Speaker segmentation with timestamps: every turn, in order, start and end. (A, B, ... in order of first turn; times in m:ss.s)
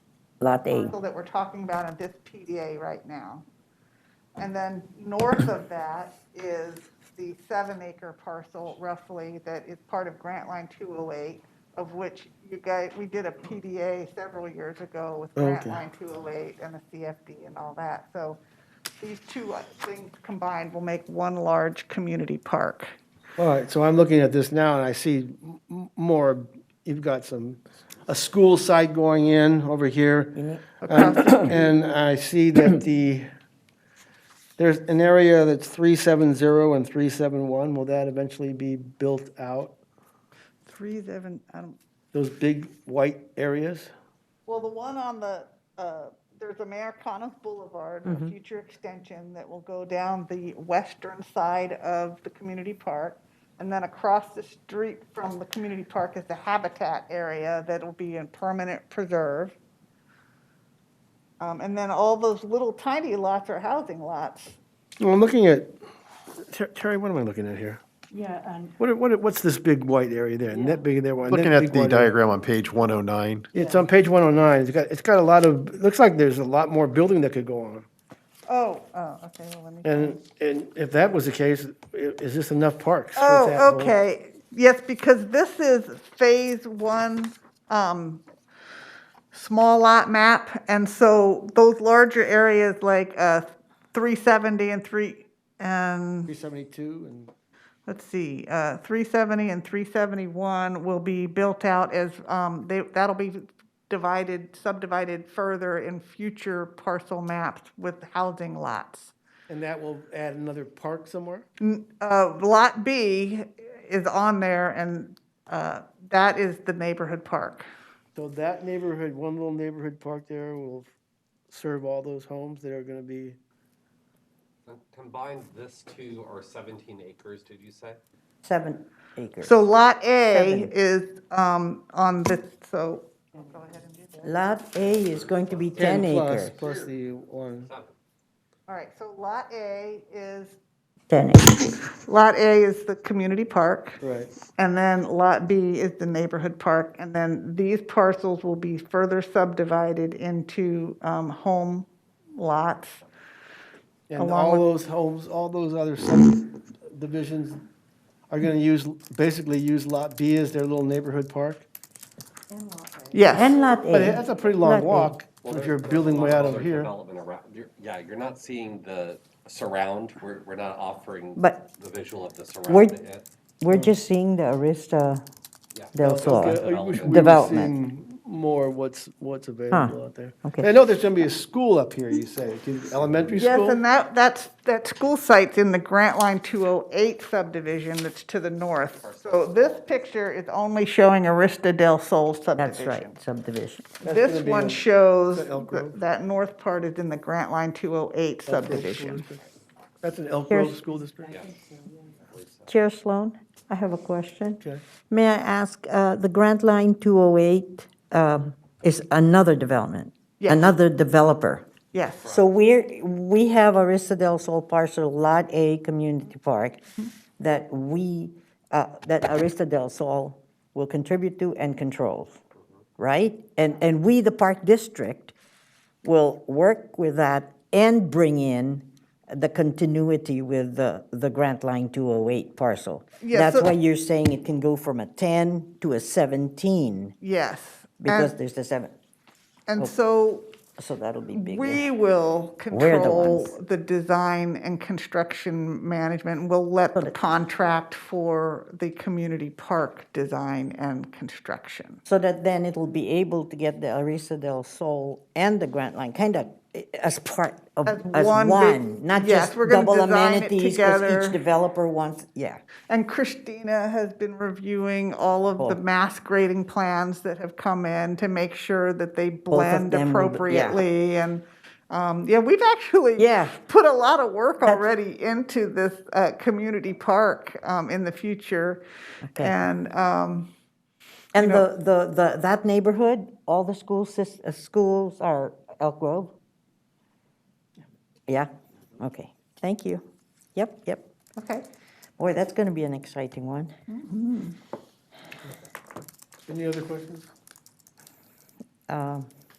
0:00.4-0:00.9 A
0:00.7-0:03.4 B
0:04.4-0:18.4 B
0:15.4-0:15.8 C
0:19.0-0:22.9 B
0:23.4-0:33.3 C
0:30.4-0:31.4 A
0:30.8-0:31.7 B
0:34.6-0:39.8 C
0:40.7-0:41.8 B
0:42.1-0:43.9 C
0:44.5-0:59.6 B
0:48.0-0:48.4 A
1:01.4-1:04.6 B
1:05.0-1:05.8 C
1:06.4-1:07.8 C
1:08.1-1:08.7 D
1:08.8-1:12.1 C
1:11.3-1:13.5 E
1:13.5-1:17.9 C
1:18.5-1:20.2 B
1:19.8-1:24.0 C
1:23.2-1:28.2 B
1:29.3-1:36.3 B
1:36.3-1:37.3 C
1:37.9-1:49.1 B
1:49.5-1:51.4 C
1:51.6-1:57.6 B
1:58.2-2:00.9 C
2:01.5-2:03.4 C
2:04.7-2:08.0 F
2:08.4-2:09.6 A
2:09.4-2:14.3 B
2:10.3-2:10.7 A
2:14.2-2:16.6 A
2:15.3-2:15.7 F
2:15.8-2:17.7 C
2:16.6-2:16.9 F
2:17.7-2:18.0 F
2:18.7-2:20.6 B
2:21.1-2:21.5 A
2:21.9-2:24.0 B
2:24.0-2:24.3 C
2:24.5-2:33.0 B
2:34.1-2:37.6 C
2:34.2-2:34.7 B
2:38.3-2:41.6 C
2:42.5-2:43.9 D
2:43.1-2:43.6 B
2:43.3-2:45.2 A
2:43.9-2:46.9 C
2:45.4-2:53.3 F
2:51.4-2:51.7 A
2:52.7-2:53.0 A
2:53.6-2:55.2 A
2:55.7-2:57.5 F
2:56.0-2:57.7 A
2:56.0-3:03.8 C
2:59.7-3:00.7 A
3:03.4-3:13.2 B
3:08.8-3:09.8 F
3:12.6-3:13.9 A
3:14.0-3:14.8 C
3:14.0-3:19.2 B
3:15.3-3:16.0 C
3:18.5-3:19.4 C
3:20.0-3:21.4 C
3:20.5-3:20.8 A
3:21.3-3:22.7 F
3:22.7-3:31.7 A
3:30.4-3:30.7 B
3:31.9-3:32.3 B
3:32.2-3:32.5 F
3:32.2-3:36.8 A
3:37.4-3:42.4 A
3:43.0-3:45.3 A
3:46.0-3:57.2 A
3:53.2-3:53.7 B
3:57.2-3:58.4 B
3:58.0-3:58.9 A
3:59.7-4:00.5 B
4:00.8-4:01.9 A
4:01.3-4:12.0 B
4:02.7-4:03.6 A
4:12.1-4:22.6 A
4:17.9-4:21.4 B
4:22.9-4:38.8 B
4:29.5-4:30.8 A
4:33.2-4:33.6 A
4:39.3-4:39.6 A
4:39.4-4:40.5 B
4:41.3-4:46.4 A
4:41.4-4:41.7 B
4:48.3-4:51.1 A
4:51.4-4:51.6 B
4:52.2-4:53.7 A
4:53.9-4:54.6 B
4:56.5-4:57.3 C
4:58.9-4:59.3 A